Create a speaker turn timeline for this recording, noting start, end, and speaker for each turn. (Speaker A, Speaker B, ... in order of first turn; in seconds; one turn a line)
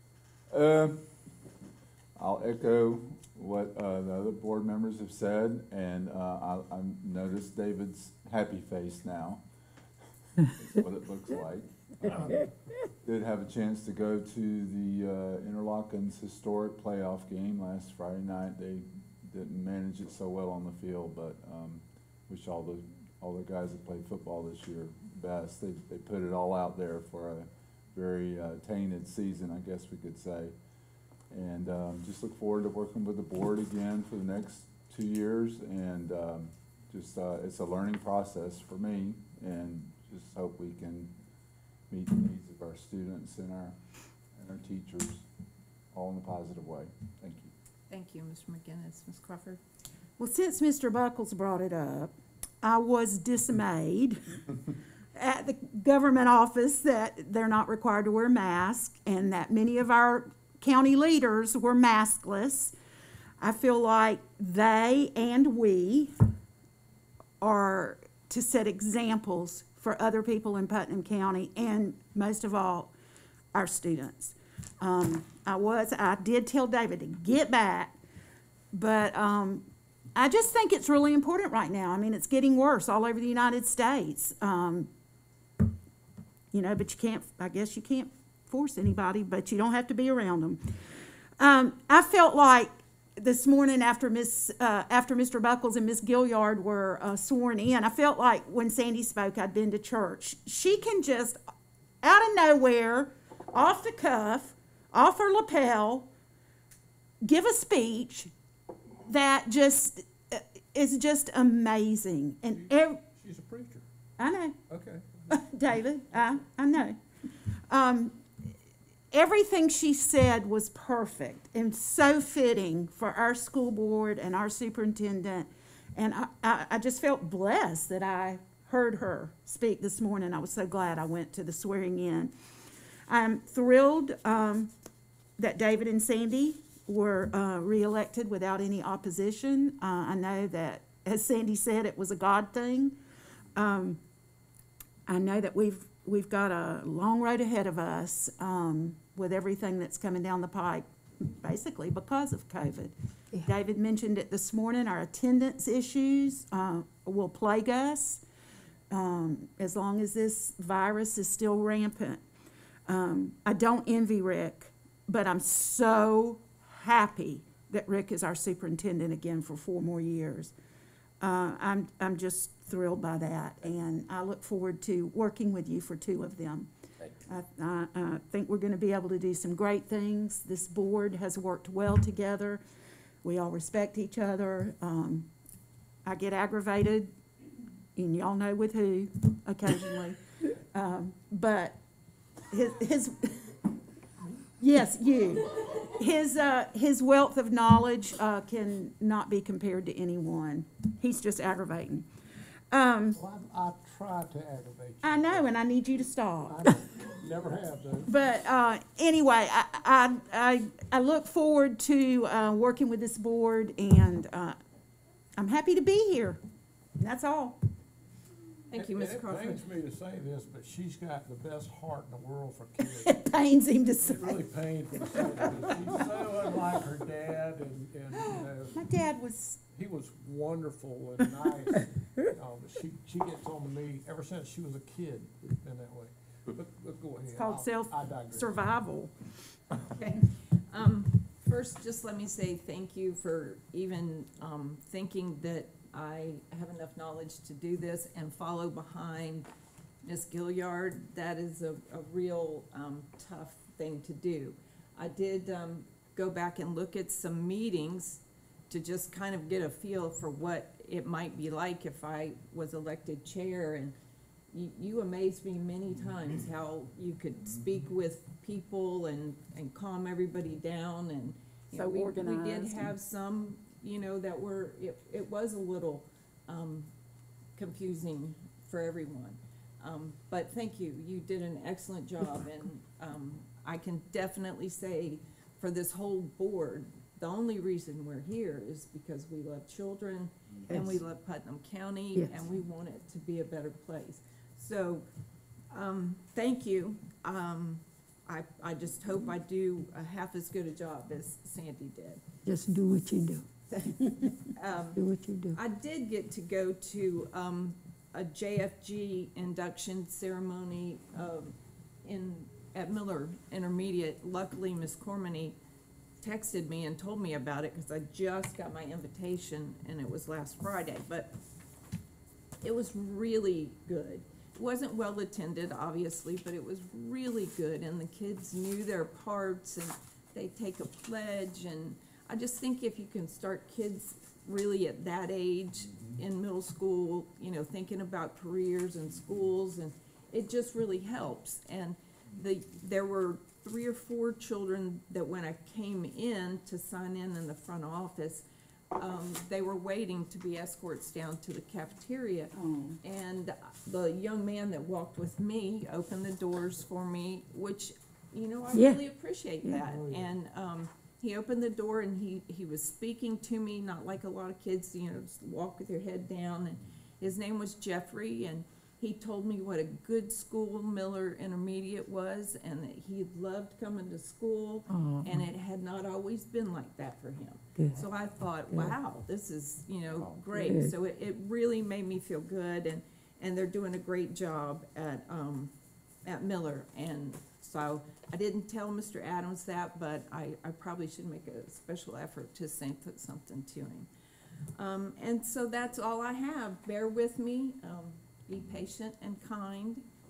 Speaker A: 0.5-1.3
Speaker A: 2.2-9.4
Speaker A: 10.5-12.5
Speaker B: 12.1-12.4
Speaker A: 13.0-30.6
Speaker A: 31.3-41.1
Speaker A: 41.9-43.8
Speaker A: 44.4-45.2
Speaker A: 45.9-47.5
Speaker C: 47.9-49.6
Speaker D: 50.2-54.4
Speaker D: 55.1-62.7
Speaker D: 63.4-66.1
Speaker D: 67.4-72.9
Speaker D: 73.5-78.0
Speaker D: 78.7-84.9
Speaker D: 86.5-90.6
Speaker D: 91.4-101.4
Speaker D: 102.0-106.1
Speaker D: 107.2-108.3
Speaker D: 109.1-113.0
Speaker B: 112.5-113.8
Speaker D: 114.2-114.6
Speaker B: 114.7-115.4
Speaker D: 115.3-117.0
Speaker D: 117.7-118.3
Speaker D: 119.1-132.3
Speaker D: 133.1-134.7
Speaker D: 135.4-142.9
Speaker D: 143.6-144.0
Speaker D: 145.1-158.2
Speaker D: 158.9-162.2
Speaker D: 162.9-170.5
Speaker D: 171.2-176.7
Speaker D: 177.3-182.6
Speaker D: 183.2-185.3
Speaker D: 186.1-187.1
Speaker D: 187.9-191.8
Speaker D: 192.5-193.5
Speaker D: 194.6-202.1
Speaker D: 202.7-203.2
Speaker B: 203.2-205.5
Speaker D: 205.0-206.8
Speaker B: 206.5-208.1
Speaker D: 208.1-214.6
Speaker D: 215.4-216.4
Speaker D: 217.0-217.6
Speaker C: 218.7-219.7
Speaker B: 218.7-223.1
Speaker D: 222.9-226.3
Speaker B: 224.0-228.8
Speaker D: 228.2-229.6
Speaker B: 229.7-238.6
Speaker D: 237.3-239.1
Speaker C: 239.9-249.5
Speaker C: 250.1-263.9
Speaker C: 264.5-276.9
Speaker D: 271.7-272.9
Speaker C: 277.6-295.1
Speaker E: 290.7-291.0
Speaker C: 295.7-302.2
Speaker E: 302.4-303.5
Speaker C: 303.7-305.0
Speaker E: 304.9-305.6
Speaker C: 305.5-315.6
Speaker C: 316.2-321.4
Speaker C: 322.6-385.7
Speaker D: 352.5-353.0
Speaker E: 358.7-359.0
Speaker B: 359.8-360.3
Speaker E: 374.9-375.4
Speaker E: 380.5-380.9
Speaker C: 386.2-394.1
Speaker C: 394.8-400.0